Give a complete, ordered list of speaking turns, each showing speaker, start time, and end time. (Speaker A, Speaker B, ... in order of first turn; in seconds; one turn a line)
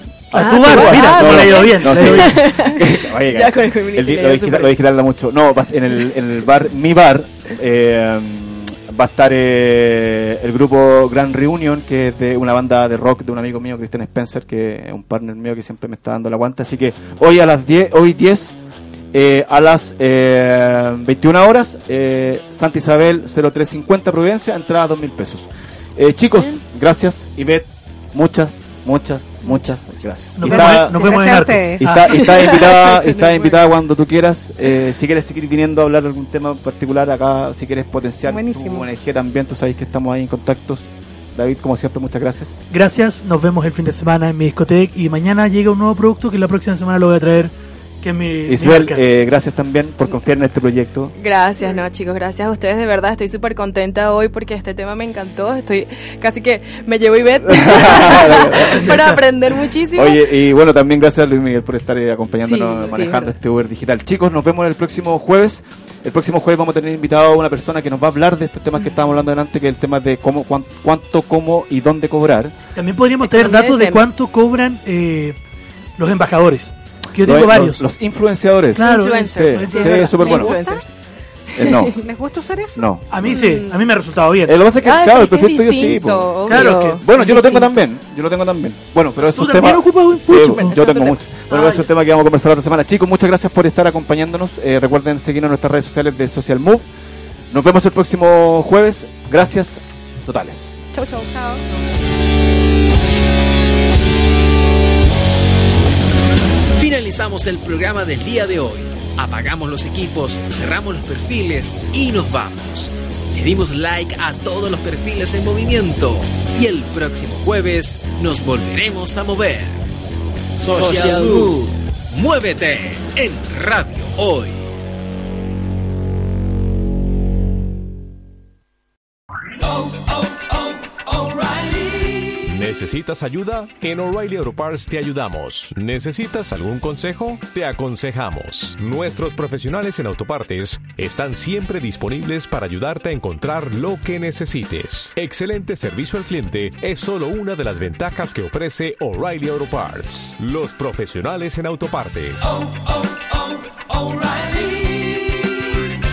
Speaker A: 0.3-2.5
Speaker B: 0.3-18.6
Speaker C: 0.3-4.8
Speaker B: 19.1-42.6
Speaker A: 30.4-32.4
Speaker D: 30.4-31.8
Speaker C: 32.1-33.6
Speaker D: 38.3-38.9
Speaker A: 42.7-49.0
Speaker B: 48.5-51.1
Speaker C: 51.2-60.2
Speaker B: 57.5-59.0
Speaker A: 58.5-59.2
Speaker B: 59.9-72.5
Speaker C: 62.4-63.3
Speaker A: 72.8-75.4
Speaker C: 73.2-74.0
Speaker A: 76.0-77.8
Speaker B: 77.2-80.5
Speaker A: 78.8-80.2
Speaker C: 78.8-80.9
Speaker D: 80.2-80.8
Speaker C: 81.5-81.9
Speaker B: 81.6-82.0
Speaker D: 81.9-82.9
Speaker B: 82.8-83.4
Speaker A: 83.1-84.5
Speaker C: 83.3-83.8
Speaker B: 84.5-96.8
Speaker C: 84.8-87.8
Speaker A: 86.5-87.0
Speaker A: 89.3-90.9
Speaker C: 90.7-91.2
Speaker A: 91.5-91.8
Speaker B: 97.5-100.8
Speaker C: 100.9-101.6
Speaker E: 106.8-119.8
Speaker E: 120.6-124.7
Speaker F: 120.7-121.5
Speaker F: 129.6-132.5
Speaker G: 132.5-152.5
Speaker F: 152.4-155.7